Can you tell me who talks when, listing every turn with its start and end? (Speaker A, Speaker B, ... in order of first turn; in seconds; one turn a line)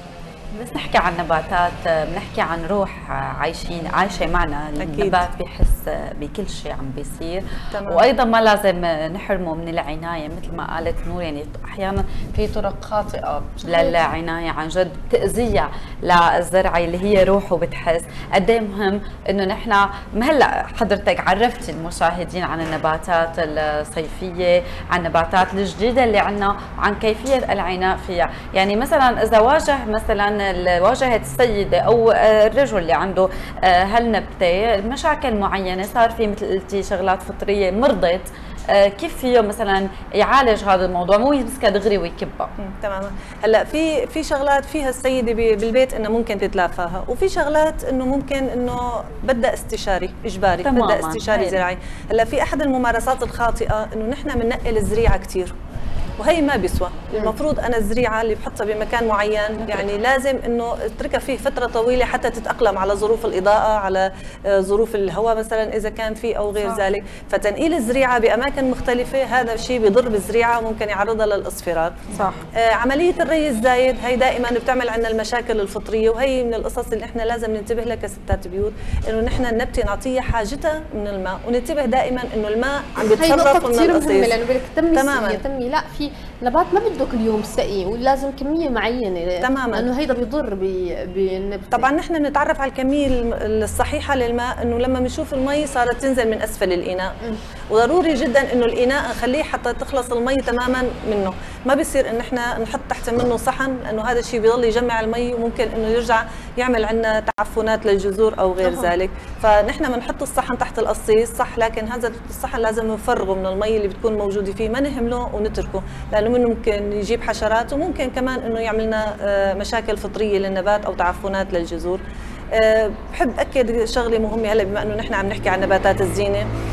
Speaker A: 0.5-42.5
Speaker B: 4.8-5.2
Speaker B: 7.7-8.1
Speaker C: 13.6-14.1
Speaker B: 42.6-55.5
Speaker A: 50.6-51.6
Speaker B: 56.2-72.0
Speaker A: 59.6-60.0
Speaker A: 72.1-72.4
Speaker B: 72.6-84.3
Speaker C: 83.2-91.9
Speaker B: 84.9-85.4
Speaker B: 89.4-89.9
Speaker B: 91.7-97.2
Speaker B: 97.7-122.0
Speaker C: 108.6-108.9
Speaker B: 122.5-126.5